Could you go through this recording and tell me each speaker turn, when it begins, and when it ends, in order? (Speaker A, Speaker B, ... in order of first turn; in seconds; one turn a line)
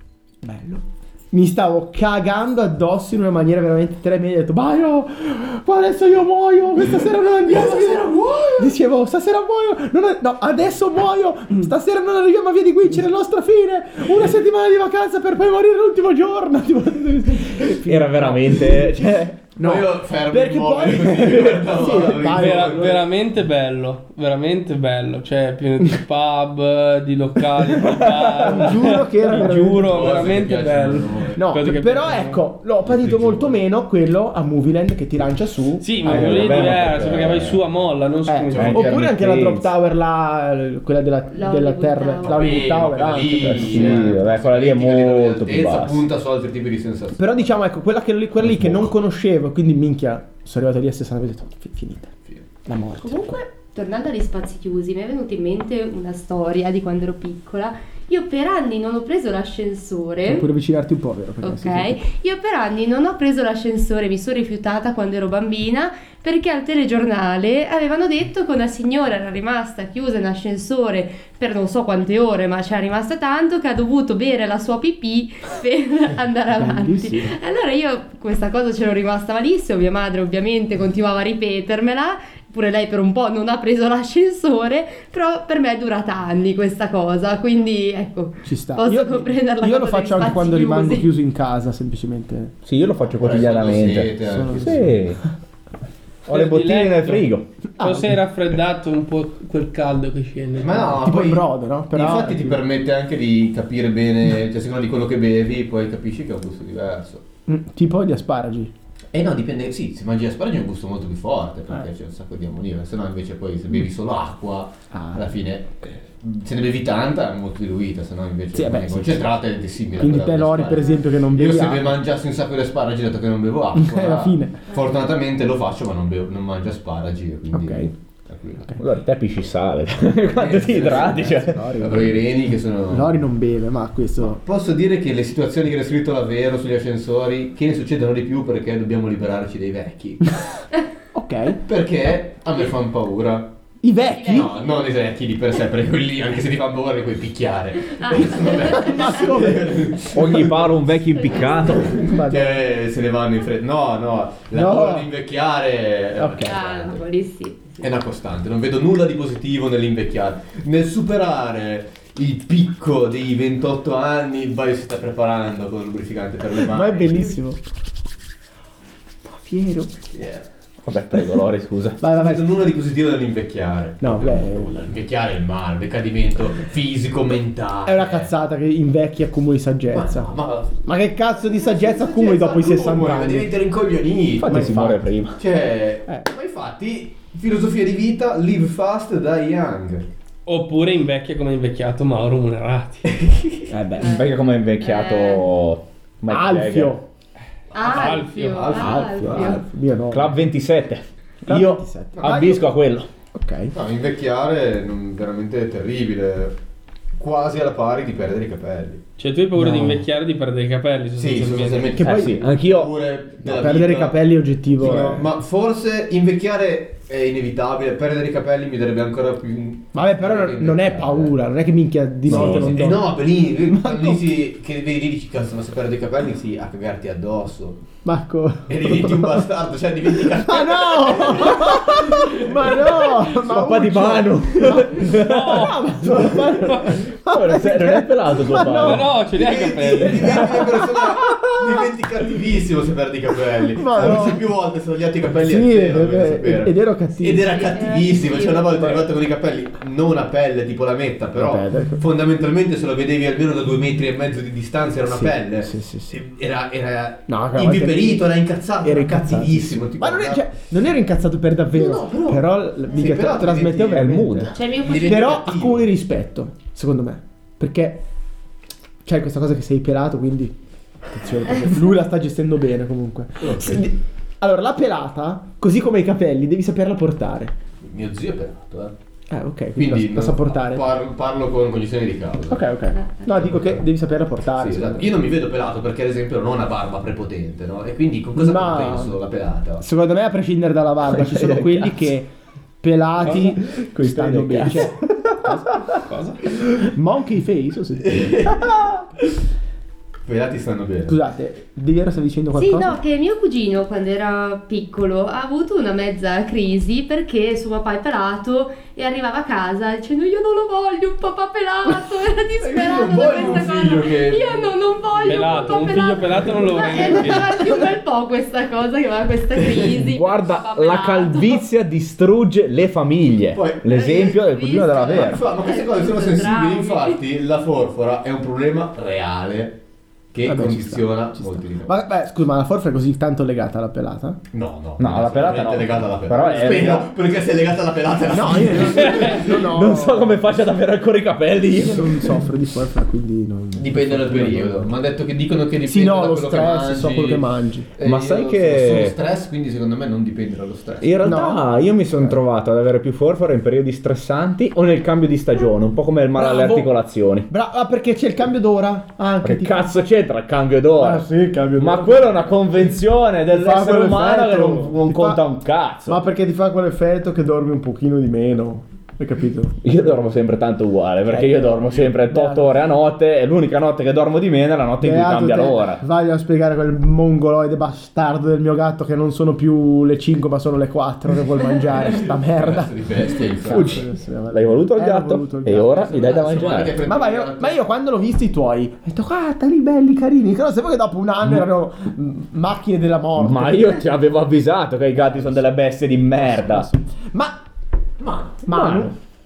Speaker A: 0.4-22.8
Speaker B: 7.4-8.8
Speaker C: 17.8-19.4
Speaker B: 19.6-23.0
Speaker D: 22.2-32.4
Speaker A: 27.9-30.0
Speaker B: 29.8-31.4
Speaker A: 31.4-36.8
Speaker B: 32.8-33.6
Speaker D: 35.8-39.0
Speaker C: 36.0-37.6
Speaker A: 38.3-44.2
Speaker C: 38.6-39.7
Speaker E: 41.3-42.8
Speaker B: 42.2-47.6
Speaker C: 43.4-46.1
Speaker A: 47.2-52.1
Speaker C: 48.4-48.9
Speaker A: 52.6-53.4
Speaker E: 53.0-60.5
Speaker A: 60.2-62.0
Speaker E: 61.4-91.1
Speaker A: 76.5-77.3
Speaker A: 88.5-92.5
Speaker C: 92.7-95.2
Speaker B: 93.2-95.0
Speaker A: 94.2-95.2
Speaker C: 96.3-97.5
Speaker D: 96.3-100.9
Speaker A: 97.8-98.1
Speaker B: 100.6-107.2
Speaker A: 100.8-102.6
Speaker A: 107.5-108.7
Speaker B: 109.1-128.7
Speaker A: 114.9-115.3
Speaker A: 118.5-119.3
Speaker A: 120.0-122.0
Speaker A: 123.8-124.7
Speaker A: 127.5-127.9
Speaker C: 128.8-131.8
Speaker B: 130.3-133.2
Speaker A: 130.8-132.2
Speaker A: 132.9-134.4
Speaker B: 134.2-140.3
Speaker A: 141.1-141.6
Speaker B: 141.6-143.5
Speaker A: 143.8-144.5
Speaker E: 144.1-144.6
Speaker B: 144.2-150.8
Speaker E: 147.9-149.2
Speaker A: 148.7-150.0
Speaker C: 150.1-152.0
Speaker E: 151.3-151.6
Speaker B: 151.7-157.0
Speaker A: 152.0-152.6
Speaker A: 154.5-155.1
Speaker A: 156.2-156.6
Speaker E: 156.4-157.8
Speaker B: 157.7-167.3
Speaker A: 166.6-167.6
Speaker A: 169.2-169.9
Speaker B: 170.1-170.5
Speaker C: 170.8-172.0
Speaker A: 172.0-172.7
Speaker B: 172.1-178.3
Speaker A: 174.0-174.8
Speaker A: 177.8-180.3
Speaker B: 179.9-180.8
Speaker A: 180.8-183.5
Speaker B: 181.8-184.9
Speaker C: 184.4-185.4
Speaker A: 184.4-185.1
Speaker B: 185.4-190.1
Speaker D: 190.5-193.2
Speaker B: 193.2-193.7
Speaker A: 193.7-194.1
Speaker C: 193.7-197.0
Speaker E: 194.0-195.5
Speaker A: 196.3-197.0
Speaker E: 197.7-199.6
Speaker B: 197.8-199.7
Speaker D: 197.8-198.8
Speaker A: 198.7-200.4
Speaker C: 200.1-203.1
Speaker A: 201.5-202.7
Speaker A: 203.3-203.8
Speaker B: 203.7-206.6
Speaker B: 207.2-209.0
Speaker D: 209.2-212.0
Speaker A: 209.6-210.0
Speaker B: 211.2-214.2
Speaker A: 212.0-212.5
Speaker C: 212.0-212.9
Speaker A: 213.4-215.3
Speaker B: 214.8-221.3
Speaker A: 219.9-224.2
Speaker B: 222.3-227.8
Speaker C: 222.3-222.9
Speaker A: 228.0-229.4
Speaker B: 228.7-233.1
Speaker A: 230.3-239.1
Speaker C: 233.2-236.1
Speaker D: 235.1-235.9
Speaker D: 236.6-237.0
Speaker C: 237.1-239.1
Speaker D: 238.6-240.5
Speaker B: 239.3-260.5
Speaker A: 240.1-241.9
Speaker A: 243.7-244.4
Speaker A: 245.3-247.5
Speaker E: 247.4-248.8
Speaker A: 251.4-252.1
Speaker A: 255.1-256.2
Speaker A: 257.3-258.3
Speaker A: 258.8-268.1
Speaker B: 261.7-265.9
Speaker C: 263.9-264.6
Speaker E: 264.5-265.5
Speaker A: 269.1-270.5
Speaker A: 271.1-277.5
Speaker B: 273.4-273.9
Speaker B: 277.8-278.9
Speaker A: 279.3-280.9
Speaker B: 279.8-282.7
Speaker A: 282.5-285.1
Speaker E: 283.0-283.2
Speaker B: 283.4-283.8
Speaker B: 284.5-289.8
Speaker A: 288.4-289.2
Speaker A: 289.8-292.3
Speaker C: 291.1-292.1
Speaker A: 292.8-295.8
Speaker C: 293.2-295.9
Speaker D: 295.9-296.4
Speaker A: 296.7-299.0
Speaker B: 298.0-298.7
Speaker B: 300.2-301.2
Speaker A: 301.1-303.0
Speaker E: 302.6-321.6
Speaker B: 312.6-315.8
Speaker D: 315.3-317.6
Speaker B: 319.6-320.0
Speaker C: 319.9-325.5
Speaker B: 323.5-324.4
Speaker E: 323.9-327.2
Speaker B: 325.0-329.8
Speaker B: 330.3-331.9
Speaker A: 330.4-334.4
Speaker B: 334.5-339.6
Speaker C: 335.0-337.1
Speaker A: 338.3-340.4
Speaker C: 339.2-342.4
Speaker A: 341.8-344.9
Speaker B: 343.7-351.2
Speaker A: 345.9-347.9
Speaker C: 348.0-349.2
Speaker C: 351.0-357.5
Speaker A: 351.2-351.7
Speaker A: 356.4-356.9
Speaker A: 357.5-359.8
Speaker C: 359.4-366.2
Speaker A: 361.0-362.6
Speaker A: 363.5-365.4
Speaker A: 366.1-370.1
Speaker C: 369.8-376.0
Speaker A: 371.3-372.7
Speaker A: 375.0-386.4
Speaker B: 382.0-384.1
Speaker C: 383.7-387.0
Speaker B: 386.1-387.8
Speaker A: 387.0-394.1
Speaker C: 391.4-391.7
Speaker C: 393.4-396.9
Speaker A: 395.2-395.6
Speaker A: 396.4-397.6
Speaker B: 398.2-398.6
Speaker A: 398.6-399.1
Speaker C: 398.7-399.1